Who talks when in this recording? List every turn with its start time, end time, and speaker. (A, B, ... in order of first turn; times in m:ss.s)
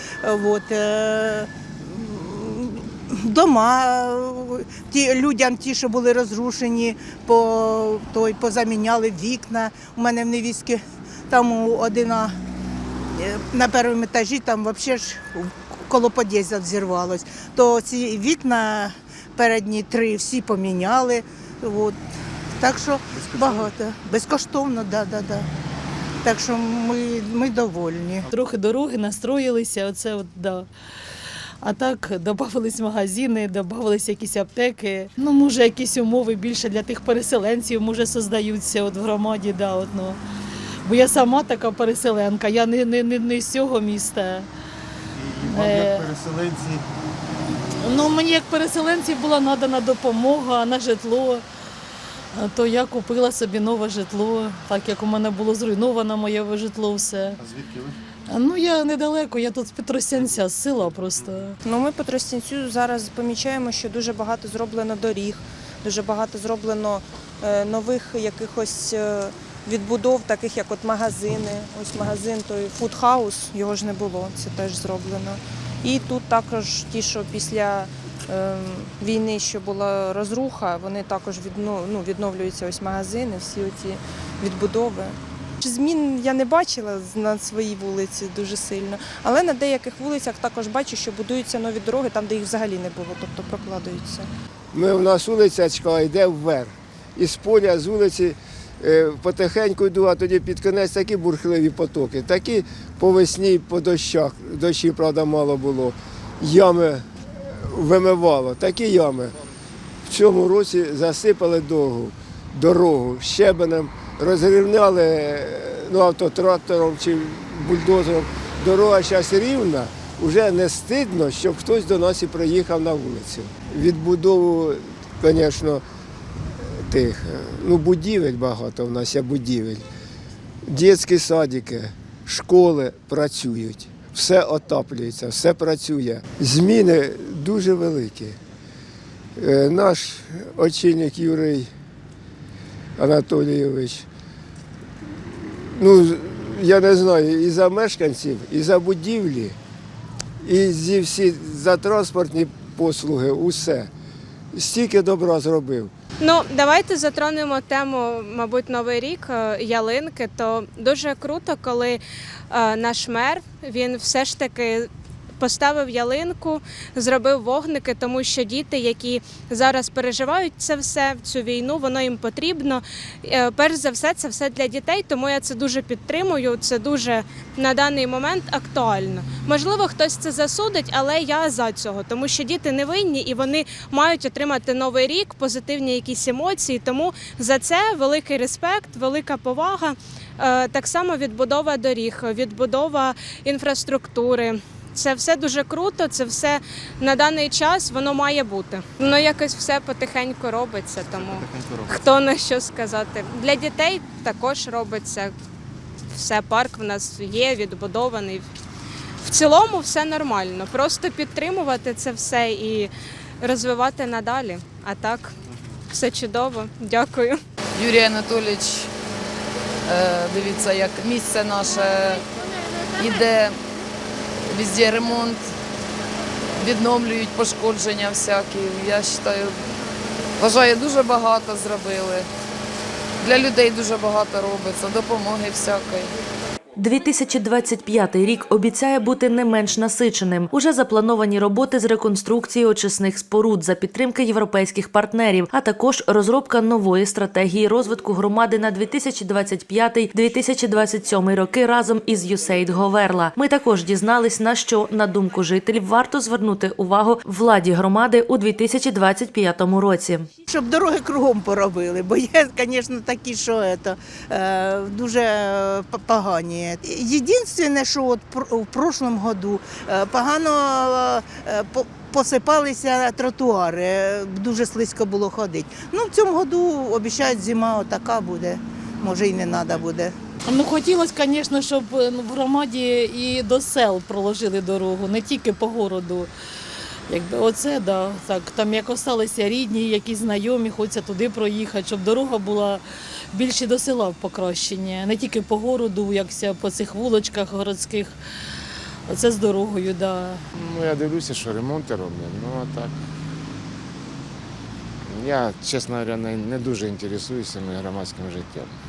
0:00.2-0:12.4 A
0:13.2-0:22.0 A
0:22.6-0:25.5 A
0:23.1-0:23.7 B
0:26.2-0:28.3 A
0:28.3-0:30.7 C
0:31.6-0:40.2 C
0:40.8-0:44.5 C
0:45.2-0:46.8 B
0:45.5-0:46.1 C
0:47.8-0:51.4 C
0:52.4-0:57.4 C
0:57.4-0:58.0 B
0:58.3-1:01.6 C
1:01.6-1:34.3 D
1:34.7-1:49.4 E
1:50.1-2:05.8 E
2:06.7-2:09.8 E
2:10.7-2:18.4 E
2:19.4-2:21.7 E
2:23.0-2:24.1 E
2:25.4-2:29.6 E
2:30.4-2:33.9 E
2:34.5-2:35.9 E
2:36.2-2:44.9 F
2:45.4-3:25.3 F
3:21.1-3:22.0 B
3:26.1-3:28.5 F
3:29.2-3:32.9 F
3:33.4-3:35.4 F
3:35.9-3:37.4 F
3:37.8-3:38.9 G
3:39.9-3:42.2 G
3:43.0-3:43.6 G
3:44.5-3:45.5 G
3:46.6-3:49.6 G
3:50.4-3:52.3 G
3:53.2-3:56.1 G
3:56.8-4:20.3 H
4:20.5-4:40.2 A
4:40.5-4:46.3 C
4:47.1-4:52.8 C
4:53.3-4:58.2 C
4:59.1-5:00.4 C
5:00.5-5:02.9 I
5:05.1-5:08.7 I